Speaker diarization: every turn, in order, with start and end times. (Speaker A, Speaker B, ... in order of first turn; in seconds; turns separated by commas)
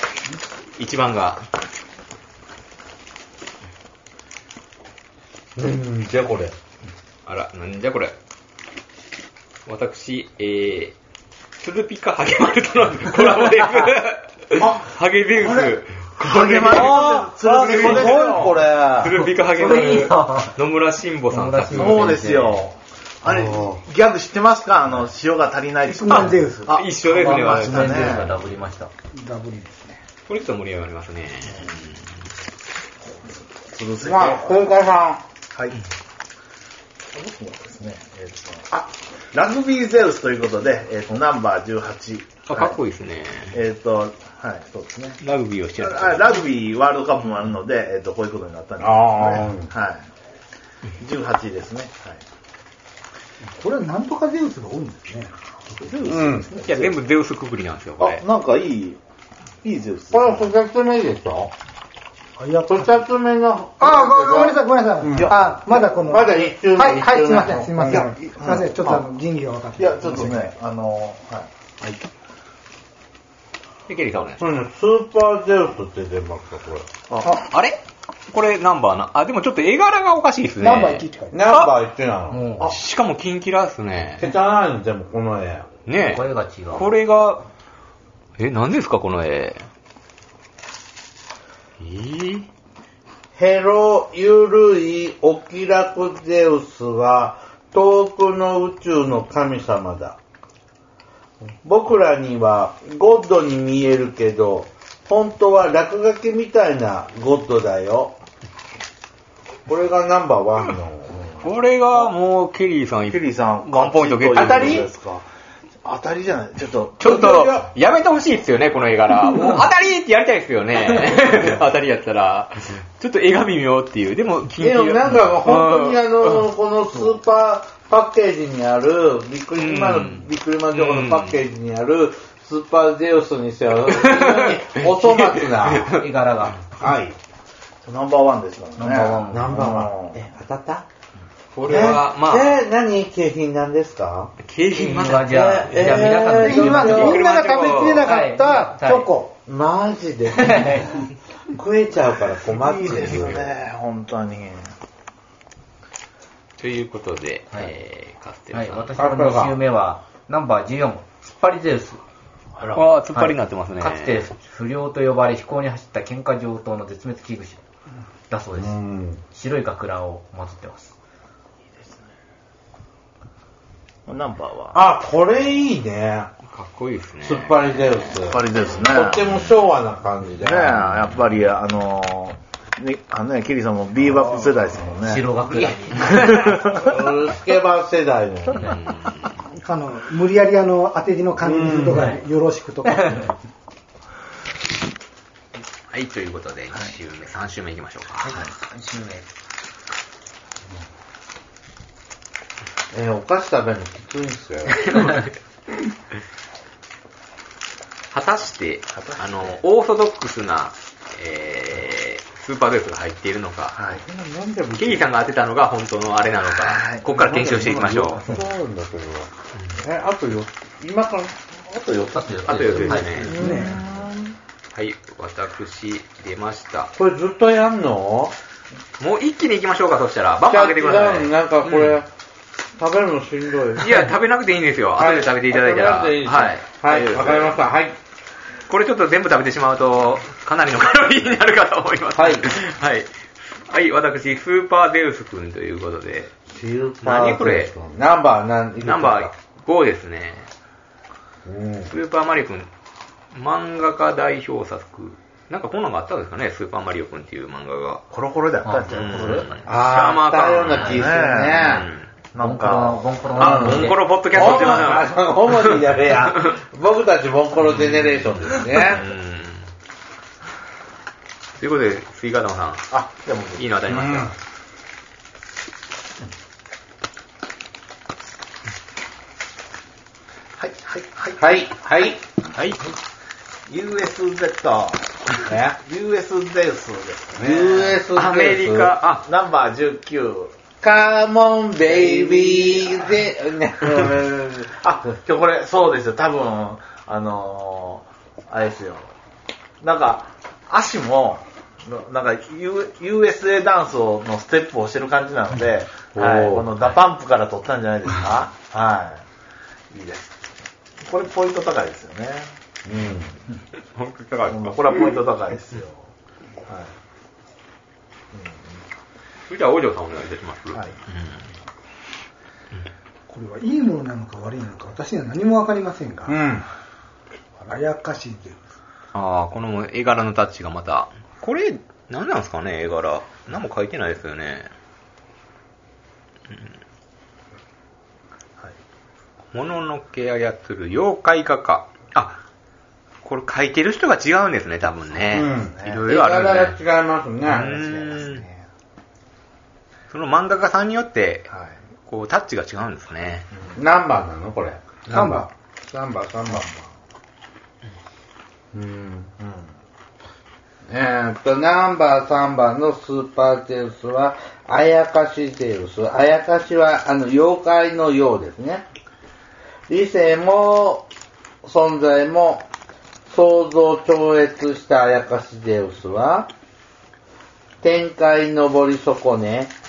Speaker A: 0.8-1.4, Speaker B: 5.5-6.5, Speaker A: 7.2-8.1, Speaker A: 9.7-10.9, Speaker A: 11.6-22.1, Speaker C: 14.6-18.6, Speaker B: 16.6-19.1, Speaker D: 19.2-20.6, Speaker D: 21.3-22.6, Speaker C: 21.7-28.3, Speaker B: 23.2-23.8, Speaker E: 25.9-26.8, Speaker A: 26.1-28.3, Speaker D: 27.2-28.9, Speaker E: 29.1-30.0, Speaker A: 30.3-32.1, Speaker C: 33.2-34.6, Speaker B: 34.0-35.2, Speaker C: 37.1-42.7, Speaker A: 42.5-43.5, Speaker C: 43.5-45.2, Speaker A: 45.2-46.4, Speaker C: 45.8-50.1, Speaker B: 48.8-49.7, Speaker C: 51.0-52.2, Speaker E: 53.5-56.2, Speaker C: 55.8-56.9, Speaker B: 56.0-56.5, Speaker A: 56.6-58.2, Speaker C: 58.0-59.0, Speaker C: 59.6-60.5, Speaker B: 60.1-61.5, Speaker E: 62.4-62.9, Speaker B: 62.6-68.2, Speaker E: 63.8-70.4, Speaker C: 68.3-69.0, Speaker C: 69.8-71.5, Speaker A: 73.9-74.4, Speaker B: 74.4-76.9, Speaker C: 77.1-77.4, Speaker A: 77.3-81.7, Speaker E: 80.6-81.4, Speaker B: 81.3-82.4, Speaker D: 82.3-82.7, Speaker A: 82.6-84.3, Speaker B: 84.2-85.7, Speaker A: 85.9-87.5, Speaker D: 85.9-86.9, Speaker A: 88.4-89.7, Speaker A: 91.8-92.5, Speaker B: 93.3-100.2, Speaker B: 101.6-108.2, Speaker B: 109.7-111.5, Speaker A: 111.4-114.9, Speaker C: 113.1-115.3, Speaker B: 114.3-114.9, Speaker C: 115.8-117.2, Speaker A: 117.0-126.5, Speaker B: 117.0-117.7, Speaker B: 124.6-136.0, Speaker A: 129.6-131.4, Speaker A: 133.9-136.0, Speaker D: 135.9-136.6, Speaker B: 136.8-137.2, Speaker C: 137.8-140.2, Speaker D: 138.8-139.7, Speaker B: 139.3-140.8, Speaker A: 141.5-142.6, Speaker B: 141.7-144.4, Speaker A: 144.4-148.1, Speaker D: 144.7-147.3, Speaker B: 145.2-147.3, Speaker E: 146.4-148.9, Speaker D: 148.0-149.1, Speaker B: 148.8-153.5, Speaker D: 150.3-150.9, Speaker C: 152.5-154.7, Speaker A: 156.6-158.9, Speaker D: 158.5-162.0, Speaker B: 159.0-159.6, Speaker C: 162.6-162.8, Speaker A: 162.7-164.3, Speaker D: 163.1-167.6, Speaker D: 168.3-168.8, Speaker B: 168.6-169.2, Speaker D: 169.3-170.9, Speaker C: 174.1-174.8, Speaker B: 174.7-176.3, Speaker A: 176.5-178.2, Speaker B: 177.2-180.9, Speaker C: 178.2-179.4, Speaker C: 180.4-185.3, Speaker A: 180.8-181.2, Speaker D: 185.0-186.5, Speaker B: 185.5-188.7, Speaker C: 186.0-186.9, Speaker A: 188.6-189.3, Speaker E: 189.5-193.3, Speaker B: 191.4-192.1, Speaker D: 191.9-192.2, Speaker D: 192.8-193.3, Speaker A: 195.9-198.3, Speaker D: 198.2-199.2, Speaker B: 202.9-205.2, Speaker A: 204.8-205.2, Speaker A: 208.1-213.8, Speaker C: 208.9-209.6, Speaker C: 213.7-214.0, Speaker B: 213.9-215.1, Speaker A: 214.8-218.4, Speaker C: 216.5-218.2, Speaker B: 217.1-221.4, Speaker C: 221.7-224.3, Speaker D: 222.1-223.3, Speaker A: 222.4-223.4, Speaker B: 222.8-223.8, Speaker E: 223.3-223.8, Speaker A: 224.7-226.9, Speaker B: 226.9-228.3, Speaker A: 229.0-232.0, Speaker B: 230.5-232.1, Speaker B: 232.8-234.1, Speaker A: 233.8-237.6, Speaker B: 235.0-237.9, Speaker A: 238.7-246.3, Speaker B: 242.1-242.5, Speaker B: 246.5-249.3, Speaker A: 247.0-247.7, Speaker A: 248.8-250.5, Speaker B: 251.4-251.9, Speaker A: 251.9-252.7, Speaker A: 253.3-258.0, Speaker C: 258.1-259.6, Speaker D: 258.6-259.6, Speaker A: 258.9-262.1, Speaker B: 259.6-261.9, Speaker C: 260.8-263.1, Speaker D: 262.4-264.0, Speaker A: 263.4-266.5, Speaker B: 263.4-269.0, Speaker A: 267.6-269.7, Speaker A: 271.6-272.9, Speaker C: 272.9-273.6, Speaker A: 273.6-274.3, Speaker B: 273.9-274.3, Speaker C: 280.6-281.6, Speaker B: 281.4-282.2, Speaker A: 282.5-282.8, Speaker C: 283.7-288.0, Speaker B: 285.4-285.8, Speaker B: 287.4-288.9, Speaker A: 288.1-289.2, Speaker C: 289.2-290.5, Speaker B: 290.8-294.7, Speaker C: 291.9-293.2, Speaker C: 293.9-299.1, Speaker C: 299.8-309.2, Speaker B: 306.1-306.7, Speaker C: 309.9-310.3, Speaker C: 311.0-312.5, Speaker B: 312.9-313.3, Speaker A: 313.9-315.1, Speaker C: 314.5-316.1, Speaker C: 316.6-316.9, Speaker C: 318.3-318.8, Speaker A: 319.5-321.5, Speaker E: 323.3-326.4, Speaker B: 326.3-326.6, Speaker E: 327.7-328.6, Speaker A: 329.1-334.7, Speaker A: 339.5-342.4, Speaker A: 343.2-346.8, Speaker B: 345.3-347.8, Speaker C: 345.3-346.1, Speaker A: 347.4-348.4, Speaker C: 347.7-348.6, Speaker A: 350.1-351.5, Speaker C: 351.5-351.8, Speaker A: 352.1-353.5, Speaker C: 353.5-353.8, Speaker B: 353.7-356.7, Speaker E: 355.1-355.5, Speaker C: 356.5-356.9, Speaker B: 358.7-359.3, Speaker C: 359.4-359.7, Speaker B: 360.9-368.9, Speaker B: 369.9-371.1, Speaker B: 371.6-372.6, Speaker B: 373.3-376.5, Speaker B: 377.8-379.7